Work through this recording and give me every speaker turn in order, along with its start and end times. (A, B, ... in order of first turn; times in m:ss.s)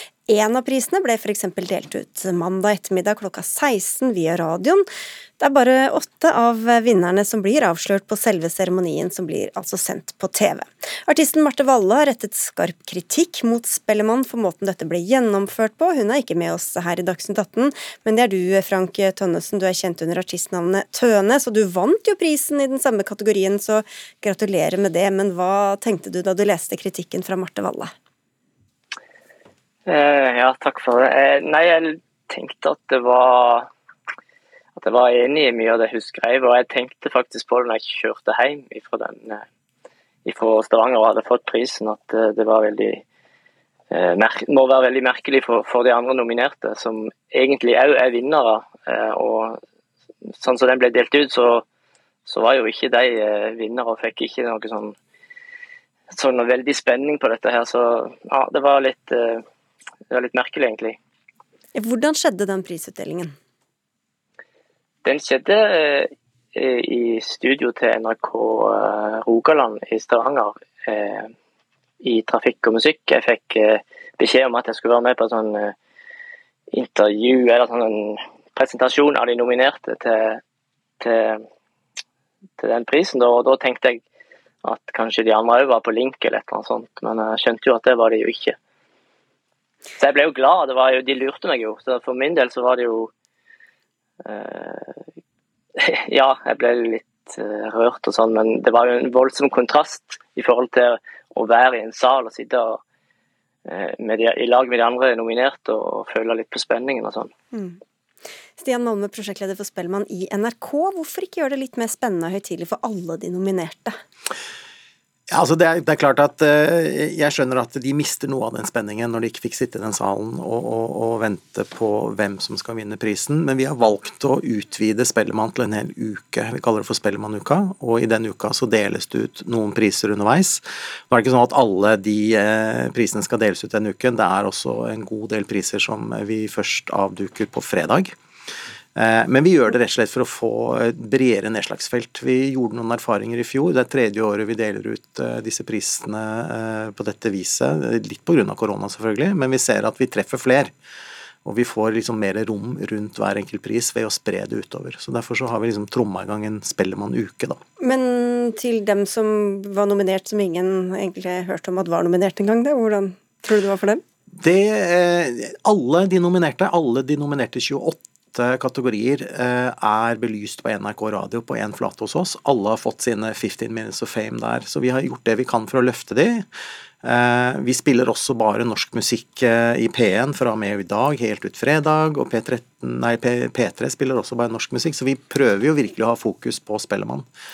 0:00.3-0:04.9 A
0:05.4-0:27.9 A
0:29.8-0:33.7 B
0:34.8-0:39.4 B
0:40.2-0:43.0 B
0:43.9-0:49.6 B
0:50.3-0:51.6 B
0:52.2-0:55.0 B
0:56.1-0:59.4 B
1:00.1-1:01.0 B
1:01.7-1:03.3 A
1:05.0-1:11.3 B
1:12.0-1:15.7 B
1:16.7-1:20.4 B
1:21.0-1:21.4 B
1:22.6-1:24.0 B
1:24.6-1:28.6 B
1:30.0-1:33.1 B
1:34.2-1:35.0 B
1:35.8-1:42.8 B
1:43.6-1:47.3 B
1:47.5-1:47.8 A
1:48.6-1:54.0 A
1:55.3-2:18.2 C
2:19.0-2:30.7 C
2:31.4-2:37.6 C
2:37.8-2:44.0 A
2:44.4-2:56.5 C
2:57.0-3:07.3 C